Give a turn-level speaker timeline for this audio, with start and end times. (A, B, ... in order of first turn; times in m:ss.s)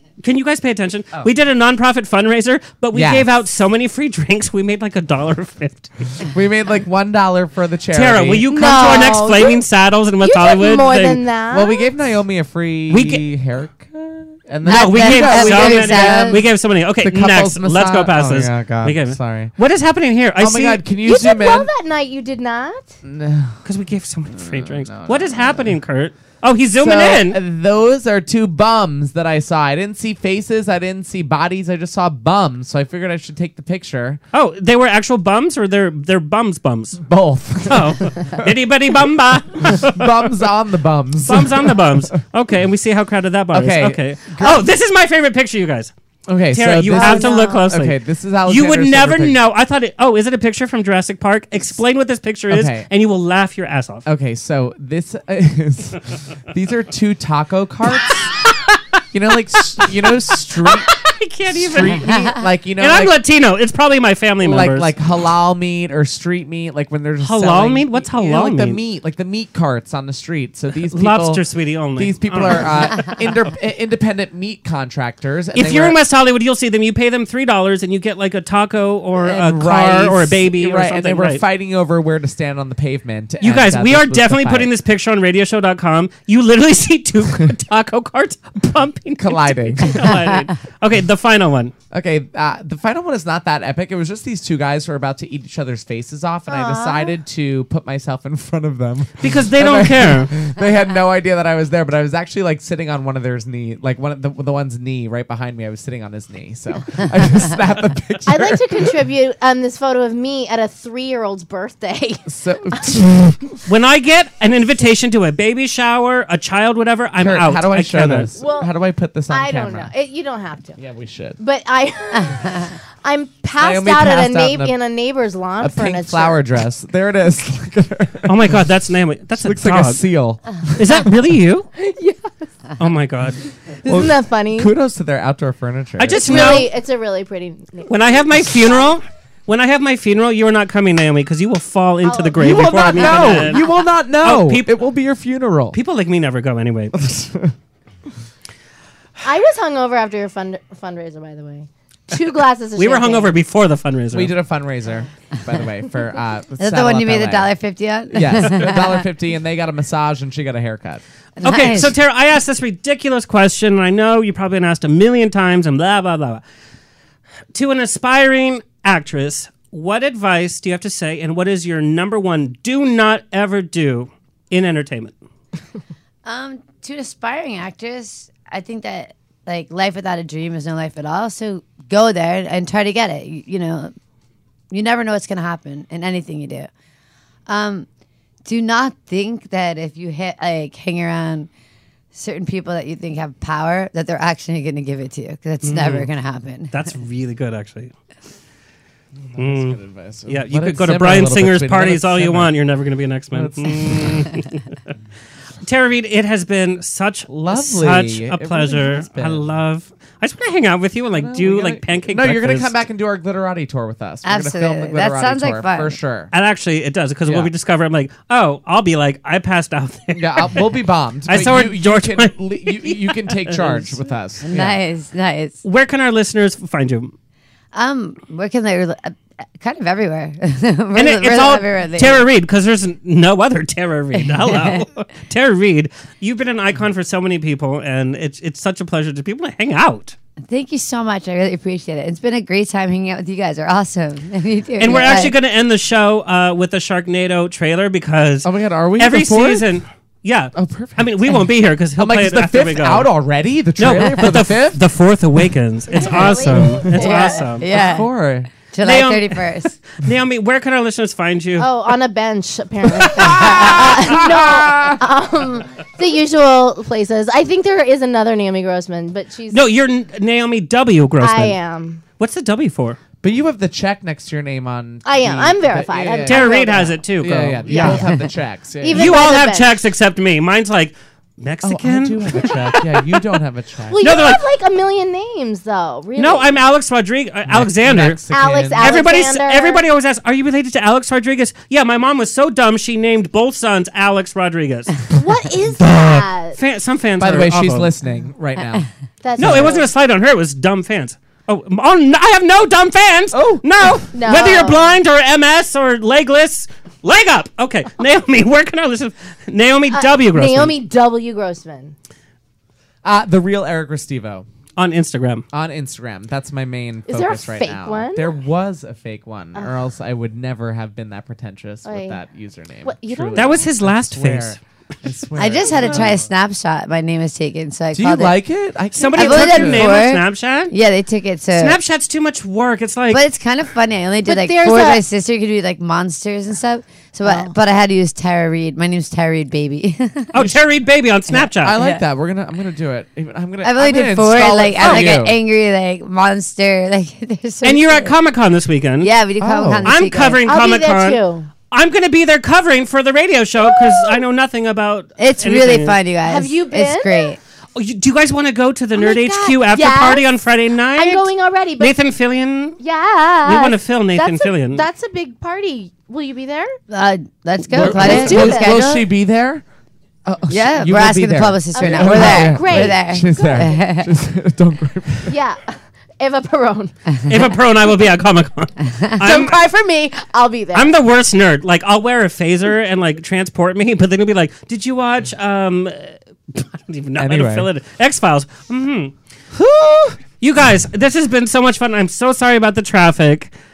0:00.2-0:06.2 A
0:02.9-0:03.3 B
0:06.2-0:08.4 B
0:07.9-0:11.2 A
0:08.5-0:09.6 C
0:10.2-0:11.9 C
0:11.5-0:16.4 B
0:12.9-0:13.2 A
0:14.6-0:16.4 D
0:14.6-0:20.8 A
0:17.0-0:19.5 B
0:20.4-0:21.7 B
0:21.0-0:22.9 C
0:23.0-0:23.6 B
0:23.6-0:27.4 A
0:24.3-0:25.8 B
0:26.8-0:34.2 B
0:34.3-0:37.0 A
0:37.0-0:38.5 B
0:37.7-0:40.3 A
0:39.6-0:42.0 B
0:41.2-0:45.9 A
0:43.5-0:44.7 B
0:46.3-0:49.4 B
0:46.5-0:54.0 A
0:47.0-0:47.6 D
0:52.5-0:52.9 B
0:54.0-0:58.3 B
0:59.1-1:00.9 B
0:59.8-1:00.0 A
1:00.6-1:02.3 A
1:01.5-1:03.2 B
1:02.8-1:04.9 A
1:04.4-1:11.4 B
1:07.2-1:08.8 A
1:10.9-1:13.3 A
1:12.0-1:16.0 B
1:15.5-1:21.4 A
1:19.2-1:24.7 B
1:23.4-1:31.7 A
1:29.2-1:30.2 B
1:31.9-1:48.9 B
1:36.5-1:37.1 C
1:39.2-1:40.3 A
1:48.2-1:52.8 C
1:52.3-1:53.4 B
1:53.6-1:58.3 A
1:57.2-1:59.9 B
1:58.4-1:58.7 C
1:59.3-2:00.8 C
2:00.8-2:01.4 B
2:01.4-2:06.4 C
2:03.6-2:04.8 B
2:05.6-2:08.6 B
2:08.3-2:10.0 A
2:09.4-2:11.0 B
2:10.8-2:11.7 A
2:11.8-2:12.2 C
2:12.8-2:13.4 A
2:13.8-2:14.7 C
2:13.8-2:16.6 B
2:16.0-2:16.7 A
2:16.2-2:18.8 C
2:17.9-2:23.7 A
2:22.0-2:23.8 C
2:22.4-2:25.8 B
2:24.2-2:24.8 A
2:25.7-2:27.0 A
2:26.9-2:27.5 B
2:29.2-2:33.4 C
2:32.8-2:34.3 A
2:34.1-2:37.5 B
2:36.6-2:39.0 D
2:38.1-2:41.0 B
2:41.4-2:46.4 A
2:41.4-2:41.9 D
2:47.5-2:55.2 A
2:56.2-3:03.9 D
3:04.7-3:06.7 D
3:07.5-3:07.8 D
3:08.4-3:11.5 D
3:12.1-3:16.7 D
3:15.6-3:16.1 A
3:16.7-3:17.9 A
3:19.1-3:22.5 B
3:19.4-3:24.6 A
3:23.3-3:24.3 B
3:25.6-3:32.8 A
3:27.5-3:29.5 B
3:31.2-3:36.3 B
3:34.2-3:36.0 D
3:36.3-3:43.9 A
3:37.2-3:37.5 B
3:40.1-3:44.8 B
3:44.4-3:45.6 D
3:45.6-3:47.1 A
3:47.7-3:52.2 D
3:50.9-4:00.2 A
3:54.4-3:54.8 D
4:00.5-4:05.4 D
4:04.8-4:13.1 A
4:08.4-4:09.7 B
4:10.5-4:11.4 B
4:12.0-4:14.8 B
4:13.8-4:17.6 A
4:16.0-4:17.4 C
4:16.0-4:17.0 B
4:17.0-4:18.1 D
4:17.6-4:18.5 B
4:18.6-4:19.7 D
4:18.8-4:21.7 A
4:21.6-4:29.6 C
4:23.0-4:25.0 B
4:23.6-4:24.2 D
4:29.5-4:31.6 A
4:31.2-4:32.0 C
4:32.2-4:33.0 A
4:33.2-4:39.3 B
4:35.0-4:37.0 C
4:36.2-4:38.0 A
4:37.6-4:38.2 C
4:38.8-4:39.8 C
4:38.9-4:42.5 A
4:41.6-4:44.2 B
4:43.9-4:46.6 C
4:44.0-4:44.4 A
4:46.2-4:48.2 A
4:47.5-4:49.1 B
4:48.3-4:49.8 C
4:48.8-4:55.0 A
4:55.1-4:56.6 C
4:55.8-4:56.2 B
4:56.6-4:57.9 A
4:57.2-4:59.8 B
4:59.2-4:59.9 C
4:59.4-5:10.8 A
5:03.3-5:03.6 B
5:04.1-5:05.0 C
5:09.9-5:11.9 C
5:13.0-5:14.4 B
5:14.8-5:15.4 A
5:15.5-5:26.2 B
5:17.1-5:18.3 C
5:21.8-5:22.2 C
5:22.8-5:23.7 C
5:23.3-5:24.6 A
5:25.4-5:28.4 D
5:27.9-5:30.1 B
5:28.9-5:30.7 A
5:29.1-5:31.8 D
5:31.5-5:33.2 A
5:33.1-5:40.3 D
5:34.2-5:35.0 C
5:37.2-5:37.5 C
5:40.3-5:41.8 A
5:41.3-5:45.4 B
5:41.8-5:42.0 D
5:43.6-5:48.1 D
5:44.8-5:45.1 A
5:47.6-5:49.1 A
5:49.0-5:50.4 D
5:49.4-5:49.9 B
5:49.8-5:56.0 A
5:50.4-5:51.5 C
5:55.2-5:57.4 D
5:56.2-5:57.4 C
5:57.7-6:02.8 A
5:59.0-6:00.2 C
6:00.9-6:02.0 C
6:02.8-6:06.8 C
6:03.4-6:04.8 A
6:06.9-6:09.1 D
6:07.7-6:09.6 B
6:07.8-6:08.8 C
6:10.2-6:15.4 B
6:10.5-6:14.1 D
6:11.7-6:13.8 C
6:15.3-6:17.1 C
6:17.3-6:19.6 A
6:19.2-6:20.9 C
6:20.7-6:29.1 A
6:27.2-6:27.7 B
6:29.5-6:30.2 B
6:30.4-6:33.5 A